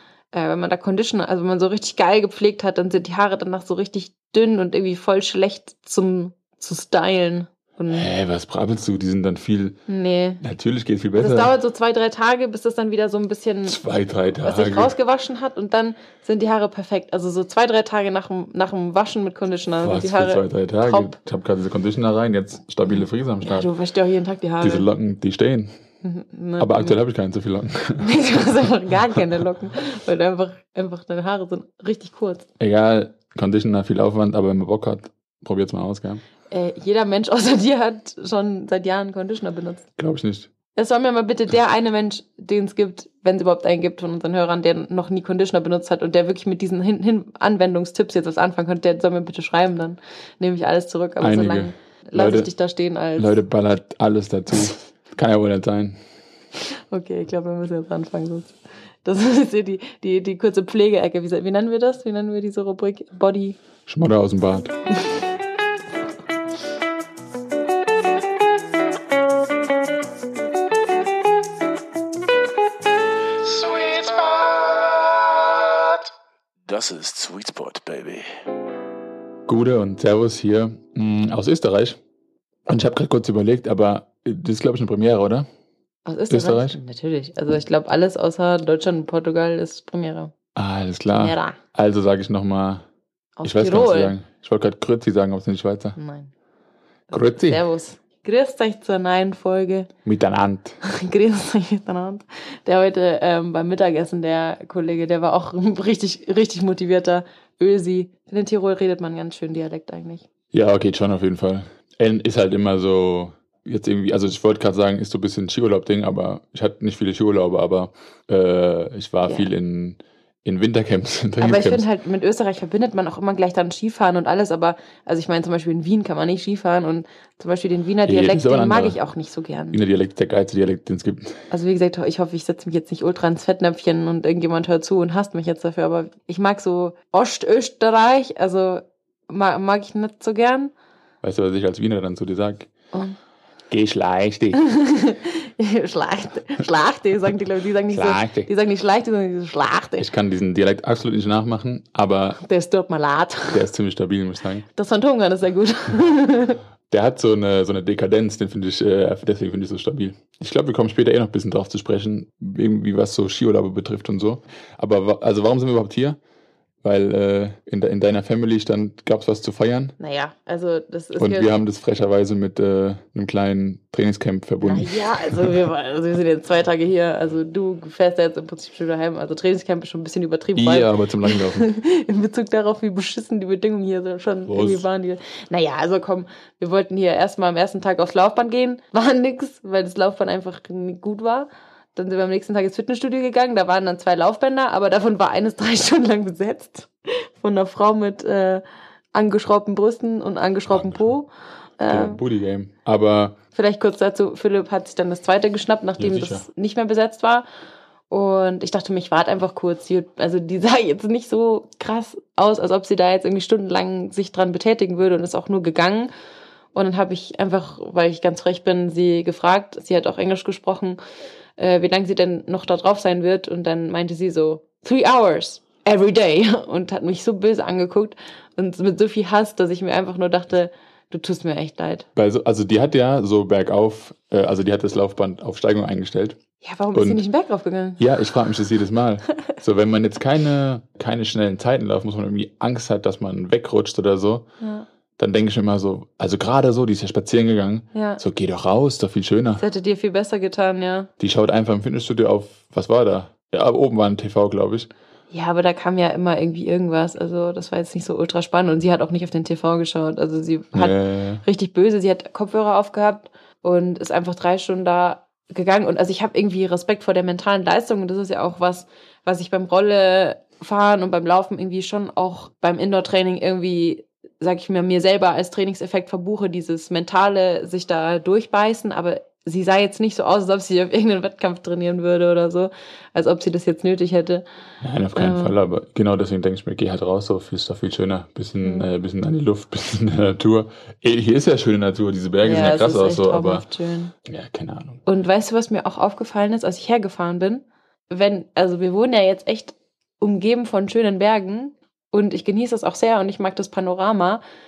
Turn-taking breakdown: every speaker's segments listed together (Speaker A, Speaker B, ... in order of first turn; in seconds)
Speaker A: 0.3-8.1, 9.9-10.4, 11.2-13.8, 14.4-21.1, 22.9-24.9, 26.0-26.9, 28.0-32.5, 36.5-39.9, 40.7-53.4, 56.7-63.6, 86.0-90.3, 91.2-91.6, 93.4-94.1, 96.0-96.3, 97.1-99.9, 100.8-110.2, 121.4-129.8, 131.5-140.7, 144.5-150.1, 152.4-153.6, 154.7-156.6, 170.0-171.5, 174.6-198.6, 199.1-202.2, 203.5-207.4, 208.1-216.1, 216.7-221.0, 221.6-232.1, 236.6-238.0, 244.6-244.9, 247.9-248.2, 249.6-251.1, 255.3-284.4, 285.1-285.5, 288.6-288.9, 292.4-294.1, 295.1-304.4
Speaker B: 7.9-9.8, 10.4-11.5, 13.6-14.9, 19.8-23.7, 24.6-25.8, 26.6-28.4, 32.6-36.2, 40.0-40.5, 51.2-52.5, 53.1-56.0, 63.9-64.7, 79.5-82.0, 82.7-85.5, 86.3-86.8, 90.5-92.8, 93.4-96.0, 97.1-97.6, 100.0-100.8, 110.5-121.8, 128.1-129.0, 129.7-131.4, 141.2-142.7, 143.7-144.6, 147.9-148.5, 150.0-152.4, 153.5-154.7, 156.9-166.2, 166.8-169.9, 171.2-175.5, 180.6-181.7, 184.5-184.8, 201.9-203.4, 206.0-206.4, 232.1-236.4, 236.9-237.2, 238.0-244.5, 245.2-249.6, 251.2-254.9, 260.7-261.4, 284.8-293.6, 294.2-295.0
Speaker C: 73.5-74.8, 76.7-78.3